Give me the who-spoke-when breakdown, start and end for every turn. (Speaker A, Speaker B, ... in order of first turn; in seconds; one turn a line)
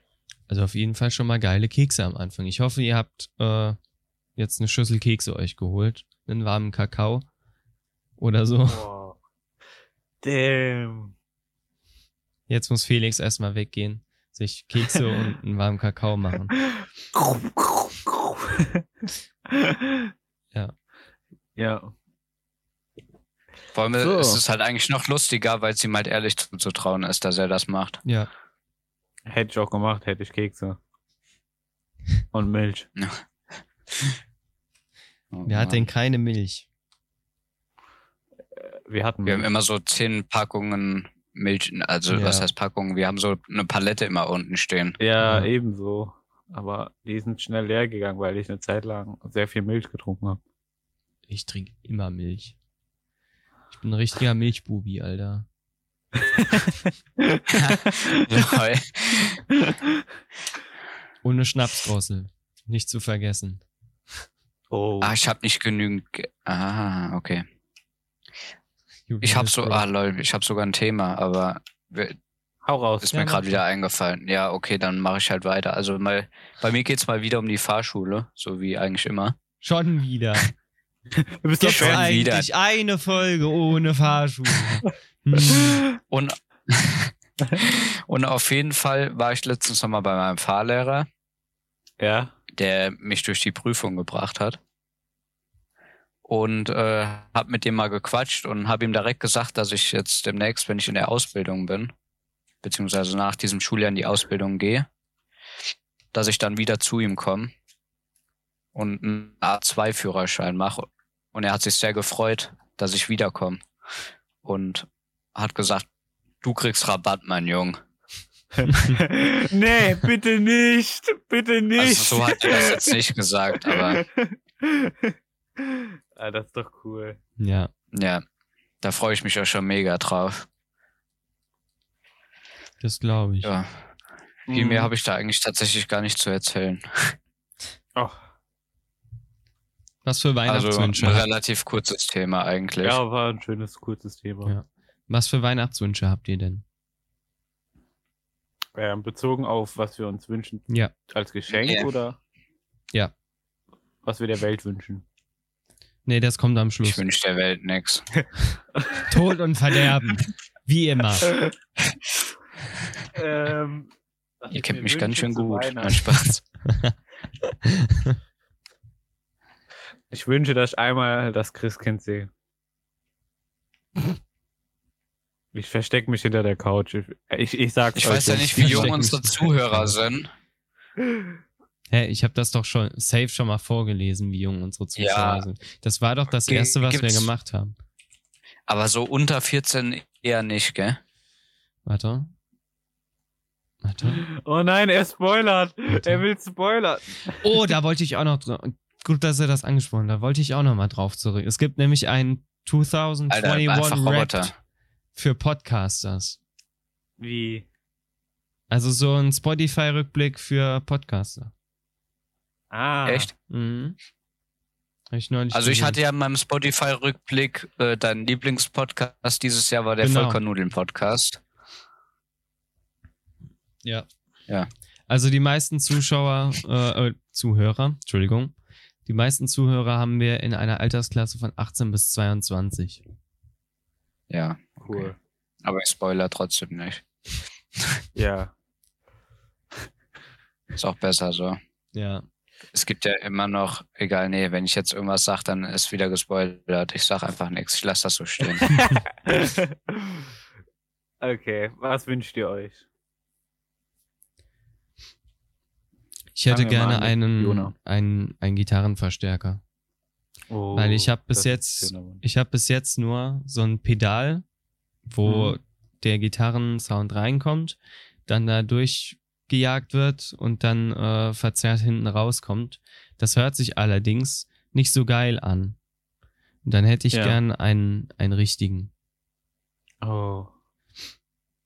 Speaker A: 0.5-3.8
Speaker A: 4.4-7.3
Speaker A: 8.2-8.9
Speaker B: 8.7-9.2
Speaker B: 10.2-11.1
Speaker A: 12.5-16.5
Speaker B: 17.1-18.9
Speaker B: 19.5-20.1
Speaker B: 21.6-21.9
Speaker C: 23.7-28.0
Speaker B: 24.0-24.4
Speaker A: 28.1-28.3
Speaker B: 29.3-30.8
Speaker B: 32.3-32.9
Speaker C: 33.9-34.2
Speaker C: 35.3-35.9
Speaker A: 35.5-36.7
Speaker B: 38.6-39.5
Speaker C: 39.3-45.0
Speaker A: 42.1-42.5
Speaker B: 45.0-50.4
Speaker A: 45.2-45.5
Speaker A: 51.3-52.6
Speaker A: 53.7-55.5
Speaker B: 56.2-58.6
Speaker C: 57.5-59.4
Speaker B: 59.5-60.0
Speaker A: 61.2-63.6
Speaker B: 64.7-65.2
Speaker C: 65.0-67.4
Speaker A: 69.1-69.8
Speaker C: 69.2-72.2
Speaker B: 72.6-73.2
Speaker C: 73.0-79.4
Speaker A: 73.1-73.6
Speaker A: 79.6-80.5
Speaker B: 81.2-82.1
Speaker A: 81.6-85.8
Speaker C: 81.7-82.5
Speaker B: 85.5-85.8
Speaker C: 86.1-91.1
Speaker B: 92.0-92.3
Speaker C: 92.6-94.6
Speaker C: 96.3-101.9
Speaker C: 102.6-104.9
Speaker C: 106.1-107.5
Speaker C: 108.8-113.6
Speaker C: 114.4-115.9
Speaker C: 116.4-117.8
Speaker A: 118.7-119.0
Speaker B: 118.9-123.0
Speaker C: 121.8-124.0
Speaker B: 123.6-127.2
Speaker A: 127.4-127.7
Speaker C: 127.9-128.2
Speaker C: 128.8-130.5
Speaker A: 132.8-133.5
Speaker C: 133.4-133.8
Speaker B: 134.5-134.9
Speaker C: 134.5-137.2
Speaker A: 140.1-141.3
Speaker C: 140.5-143.0
Speaker B: 142.8-144.5
Speaker A: 144.4-146.6
Speaker B: 148.8-152.2
Speaker C: 151.5-151.9
Speaker B: 154.0-155.0
Speaker A: 156.1-157.0
Speaker C: 156.8-158.1
Speaker B: 158.8-159.1
Speaker A: 159.1-161.3
Speaker B: 163.2-163.9
Speaker B: 164.4-166.1
Speaker C: 164.5-166.4
Speaker A: 166.7-166.9
Speaker A: 167.5-168.2
Speaker B: 170.1-172.3
Speaker B: 175.5-178.9
Speaker C: 178.0-180.3
Speaker A: 178.5-179.9
Speaker A: 181.9-187.8
Speaker C: 185.0-185.4
Speaker C: 186.5-187.3
Speaker C: 188.7-191.0
Speaker A: 191.8-192.3
Speaker A: 193.8-194.2
Speaker B: 194.1-197.4
Speaker A: 195.9-196.2
Speaker A: 197.4-204.5
Speaker C: 203.3-204.6
Speaker A: 205.2-206.4
Speaker B: 207.2-207.7
Speaker A: 208.7-211.5
Speaker B: 212.7-213.3
Speaker C: 213.1-213.3
Speaker A: 213.5-214.0
Speaker A: 215.1-216.0
Speaker C: 215.5-221.4
Speaker A: 220.0-220.4
Speaker A: 225.1-228.5
Speaker A: 229.1-233.0
Speaker C: 234.3-235.1
Speaker B: 234.8-235.2
Speaker C: 235.6-237.1
Speaker B: 238.2-238.5
Speaker C: 240.8-241.6
Speaker A: 241.9-242.2
Speaker C: 242.7-248.7
Speaker B: 248.5-250.3
Speaker B: 251.2-252.8
Speaker A: 256.4-259.6
Speaker B: 256.5-257.7
Speaker B: 260.5-262.2
Speaker A: 260.8-264.4
Speaker A: 265.1-275.8
Speaker B: 265.3-265.6
Speaker A: 276.6-278.9
Speaker B: 277.1-277.4
Speaker B: 280.0-280.5